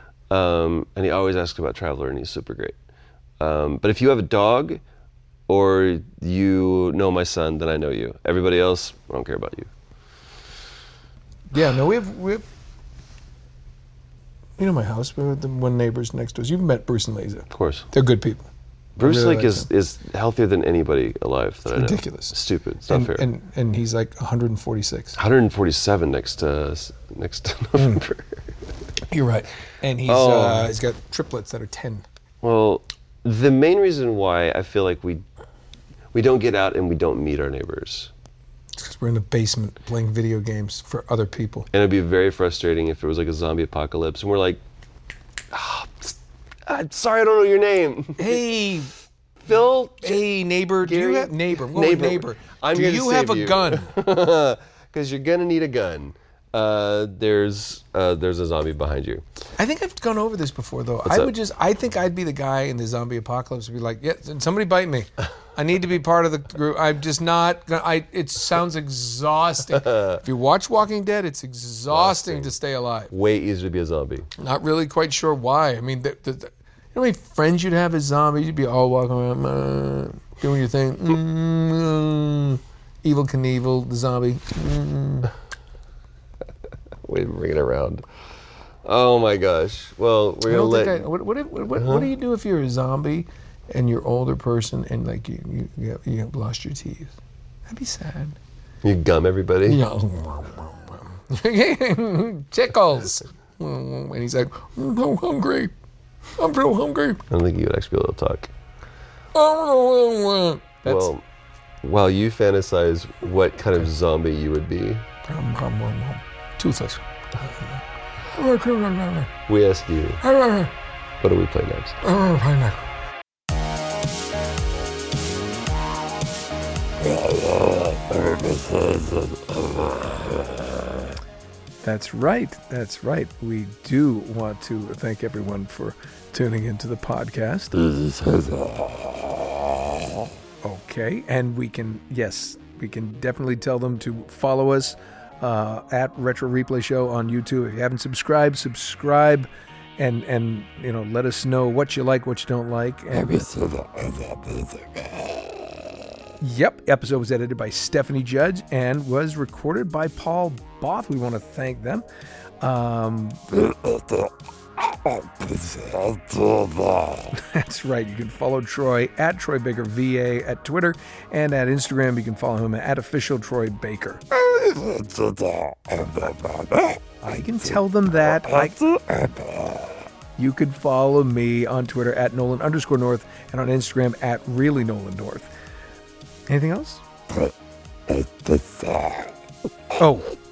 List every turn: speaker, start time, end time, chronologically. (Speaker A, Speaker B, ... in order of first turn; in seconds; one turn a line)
Speaker A: 0.3-2.8
Speaker A: 3.4-4.8
Speaker A: 5.5-9.7
Speaker B: 11.5-12.4
Speaker B: 14.6-18.5
Speaker A: 17.5-17.9
Speaker A: 18.9-23.3
Speaker B: 19.0-19.7
Speaker B: 21.7-22.4
Speaker B: 22.9-25.1
Speaker A: 25.1-28.6
Speaker B: 29.1-32.0
Speaker A: 30.1-30.7
Speaker A: 32.4-35.2
Speaker A: 36.1-38.1
Speaker B: 38.7-41.7
Speaker A: 41.7-44.6
Speaker A: 45.5-48.4
Speaker B: 48.2-48.9
Speaker A: 49.4-50.2
Speaker B: 50.0-53.9
Speaker A: 50.8-59.2
Speaker B: 59.6-73.1
Speaker A: 61.0-61.3
Speaker A: 69.7-70.2
Speaker A: 71.9-72.5
Speaker A: 73.1-74.3
Speaker B: 74.4-85.3
Speaker A: 87.0-88.0
Speaker A: 88.8-91.1
Speaker B: 90.5-97.1
Speaker A: 91.8-92.1
Speaker B: 97.7-98.4
Speaker A: 98.8-99.8
Speaker B: 99.7-105.7
Speaker B: 106.4-107.2
Speaker A: 107.3-108.5
Speaker B: 109.3-111.1
Speaker A: 110.8-111.2
Speaker A: 111.8-115.0
Speaker B: 115.3-117.8
Speaker B: 118.3-119.3
Speaker A: 119.5-120.2
Speaker B: 120.2-120.7
Speaker A: 121.2-122.0
Speaker B: 122.0-122.8
Speaker A: 127.2-130.8
Speaker B: 131.8-137.7
Speaker A: 137.9-138.7
Speaker B: 140.6-153.7
Speaker B: 156.4-162.1
Speaker B: 162.6-163.6
Speaker B: 167.3-174.4
Speaker B: 177.2-179.0
Speaker B: 180.4-185.5
Speaker B: 186.5-187.0
Speaker B: 189.9-190.3